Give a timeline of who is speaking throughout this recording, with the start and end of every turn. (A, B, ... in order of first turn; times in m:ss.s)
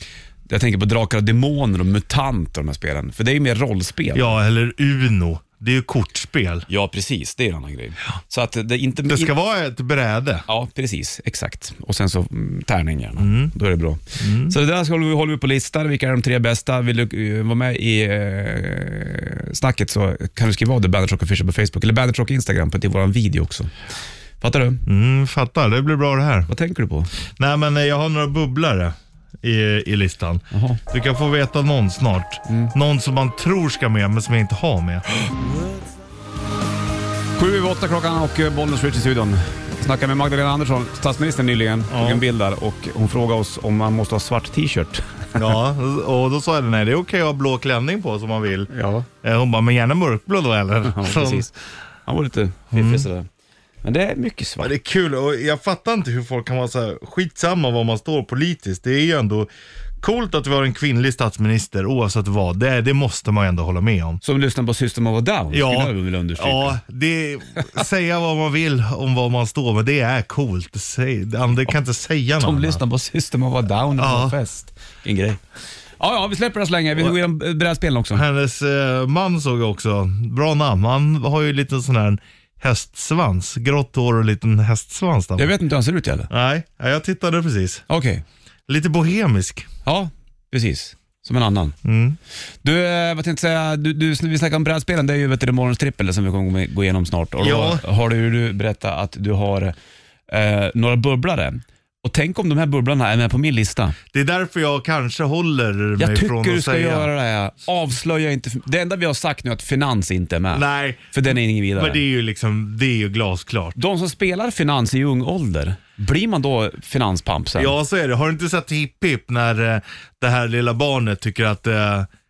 0:00.5-0:04.3 A
0:04.1-0:06.7 B
0:06.7-0:09.3 A
0:09.1-0:10.4 B
0:10.5-0:23.7 A
0:13.2-0:13.5 B
0:14.2-0:14.6 B
0:24.4-0:24.8 A
0:24.8-0:26.5 B
0:26.5-0:27.1 A
0:27.3-0:35.0 B
0:30.5-0:30.8 A
0:32.5-0:32.7 A
0:35.2-0:35.6 A
0:37.4-0:45.2 A
0:41.9-0:42.2 B
0:45.3-0:48.7 B
0:48.7-0:49.1 A
0:49.2-0:51.5 B
0:50.8-0:51.5 A
0:52.0-0:53.3 A
0:52.7-0:53.0 B
0:53.8-0:54.7 A
0:54.6-0:59.5 B
1:00.0-1:04.2 B
1:04.2-1:06.8 A
1:05.5-1:12.8 B
1:12.4-1:15.4 A
1:14.0-1:14.4 B
1:16.0-1:18.2 A
1:18.1-1:25.5 B
1:25.4-1:26.3 A
1:26.3-1:27.8 B
1:27.9-1:28.2 A
1:28.7-1:29.7 B
1:29.8-1:31.8 A
1:31.8-1:32.2 B
1:32.6-1:39.7 A
1:37.4-1:37.8 B
1:40.3-1:44.0 A
1:44.1-1:47.1 B
1:46.0-1:52.0 A
1:50.5-1:53.8 B
1:53.8-1:57.7 A
1:57.6-2:02.1 B